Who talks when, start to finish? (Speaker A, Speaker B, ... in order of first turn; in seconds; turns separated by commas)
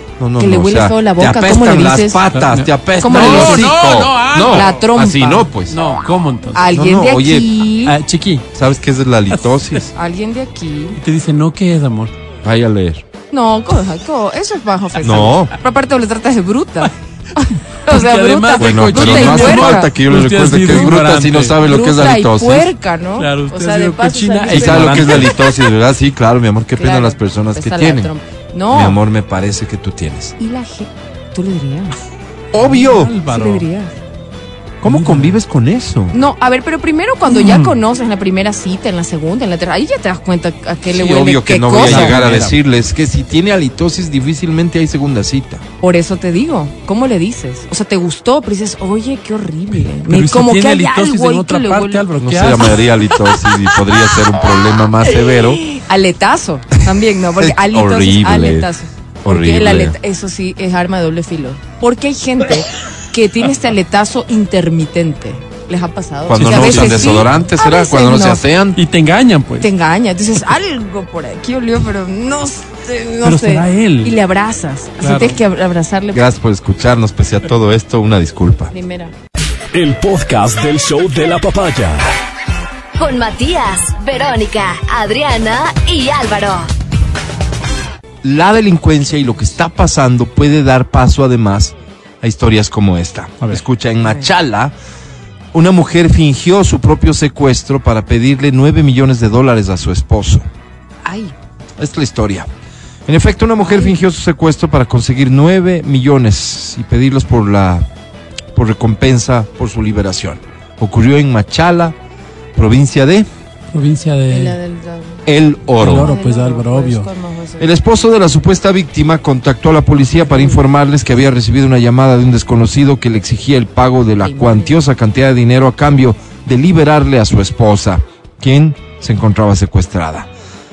Speaker A: 0.2-5.8, Speaker B: 0.4-2.2, Speaker C: 2.3-4.9, Speaker B: 3.0-3.7, Speaker B: 4.4-5.5, Speaker C: 5.6-6.7, Speaker B: 6.5-8.0, Speaker A: 6.7-7.5, Speaker C: 7.9-8.5, Speaker A: 8.6-9.9, Speaker C: 9.3-9.9, Speaker B: 10.0-11.0, Speaker C: 11.0-12.1, Speaker A: 12.4-13.0, Speaker B: 13.3-19.9, Speaker A: 15.0-15.5, Speaker C: 17.9-21.6, Speaker A: 18.6-22.7, Speaker B: 21.6-25.5, Speaker C: 23.2-25.4, Speaker A: 24.5-28.1, Speaker B: 26.8-29.0, Speaker A: 28.7-30.4, Speaker B: 30.4-32.0, Speaker A: 32.5-33.1, Speaker C: 32.5-33.7, Speaker B: 33.3-34.0, Speaker A: 34.8-36.2, Speaker C: 34.8-35.4, Speaker B: 36.1-42.1, Speaker C: 37.3-37.8, Speaker A: 40.9-45.6, Speaker C: 41.8-42.6, Speaker B: 45.8-52.0, Speaker C: 50.1-52.9, Speaker A: 52.2-55.6, Speaker B: 53.1-53.9, Speaker B: 55.0-68.4, Speaker A: 57.4-58.7, Speaker A: 59.2-60.0, Speaker A: 66.3-68.8, Speaker C: 66.4-67.3, Speaker C: 68.8-69.7, Speaker B: 69.6-76.3, Speaker C: 73.2-74.2, Speaker C: 75.0-75.4, Speaker A: 76.1-78.7, Speaker B: 78.7-79.1, Speaker D: 79.7-82.1, Speaker E: 83.0-86.7, Speaker A: 88.2-94.7, Speaker B: 94.0-94.3, Speaker A: 95.5-100.5, Speaker B: 101.0-101.3, Speaker A: 101.8-102.5, Speaker A: 103.1-107.9, Speaker B: 103.6-104.0, Speaker A: 108.5-112.0, Speaker A: 112.5-113.3, Speaker C: 113.7-114.6, Speaker B: 114.3-115.2, Speaker A: 115.3-116.1, Speaker C: 115.8-117.1, Speaker B: 115.8-117.7, Speaker A: 117.6-130.3, Speaker B: 120.2-120.7, Speaker B: 124.2-124.8